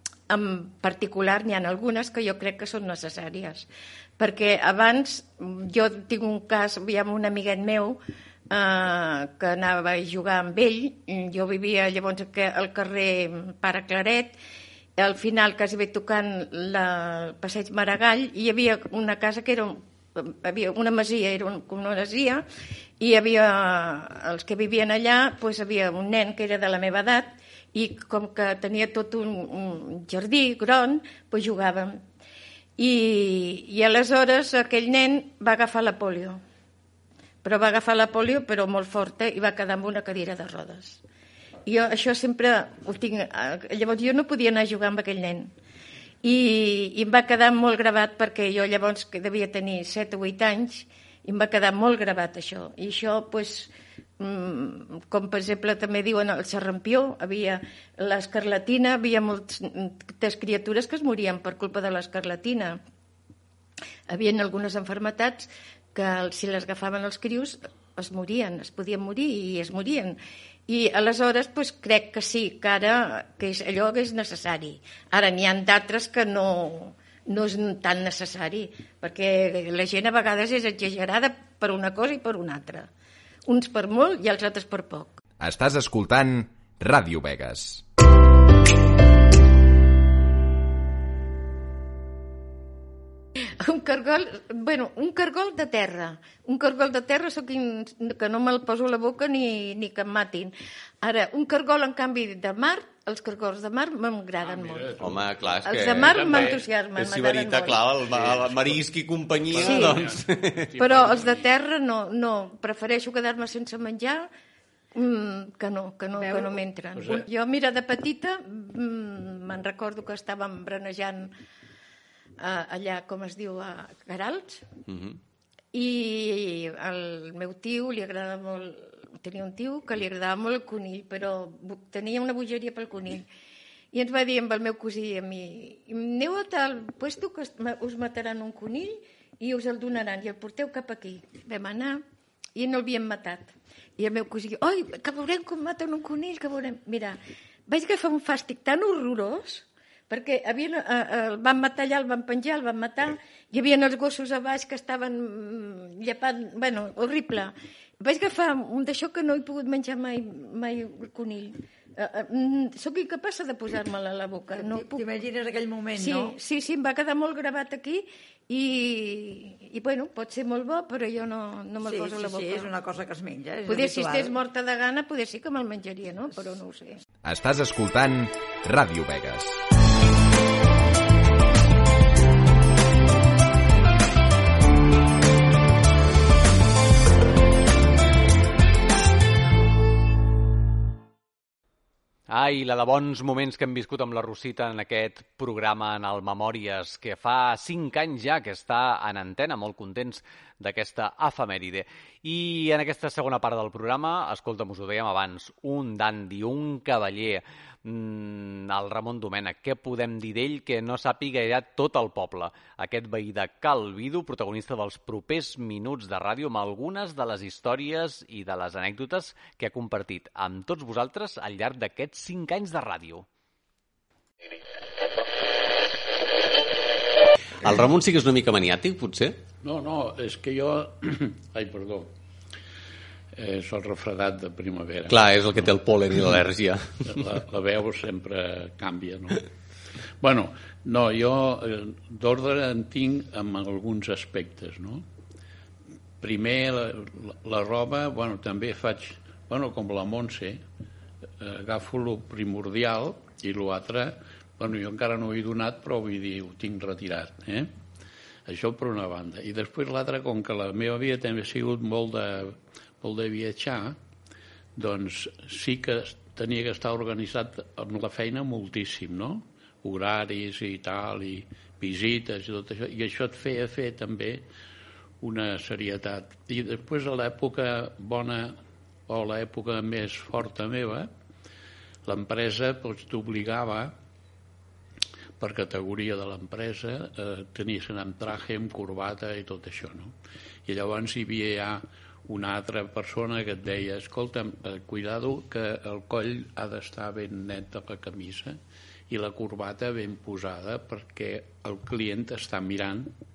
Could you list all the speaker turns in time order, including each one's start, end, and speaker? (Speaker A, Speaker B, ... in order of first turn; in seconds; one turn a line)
Speaker A: 0.3-3.7
Speaker A: 4.2-8.0
Speaker A: 8.5-14.3
Speaker A: 15.0-22.4
Speaker A: 23.0-32.0
Speaker A: 32.8-36.4
Speaker A: 37.4-41.0
Speaker A: 41.6-45.5
Speaker A: 46.2-62.8
Speaker A: 64.1-70.2
Speaker A: 70.7-82.9
Speaker A: 83.5-85.2
Speaker B: 85.4-87.8
Speaker A: 93.6-105.1
Speaker C: 104.4-106.6
Speaker D: 105.0-110.8
Speaker A: 105.6-108.2
Speaker C: 108.2-108.5
Speaker C: 109.5-111.4
Speaker A: 109.6-110.0
Speaker A: 110.8-114.3
Speaker A: 114.9-121.3
Speaker E: 116.2-116.5
Speaker C: 117.0-117.2
Speaker A: 122.4-124.7
Speaker D: 124.9-125.2
Speaker A: 125.7-133.2
Speaker A: 133.9-142.0
Speaker A: 142.6-165.1
Speaker E: 164.6-166.4
Speaker A: 165.9-172.7
Speaker E: 171.8-174.3
Speaker A: 173.7-177.0
Speaker B: 177.2-179.6
Speaker F: 192.3-223.2
Speaker D: 227.6-229.3
Speaker C: 229.6-232.1
Speaker C: 233.3-235.2
Speaker D: 235.1-237.2
Speaker C: 237.0-239.5
Speaker C: 240.2-245.0
Speaker C: 246.2-250.6
Speaker C: 251.4-257.7
Speaker C: 258.4-264.0
Speaker C: 264.8-274.4
Speaker C: 275.2-278.5
Speaker C: 279.1-281.1
Speaker C: 282.0-283.9
Speaker C: 285.4-290.1
Speaker C: 290.6-303.1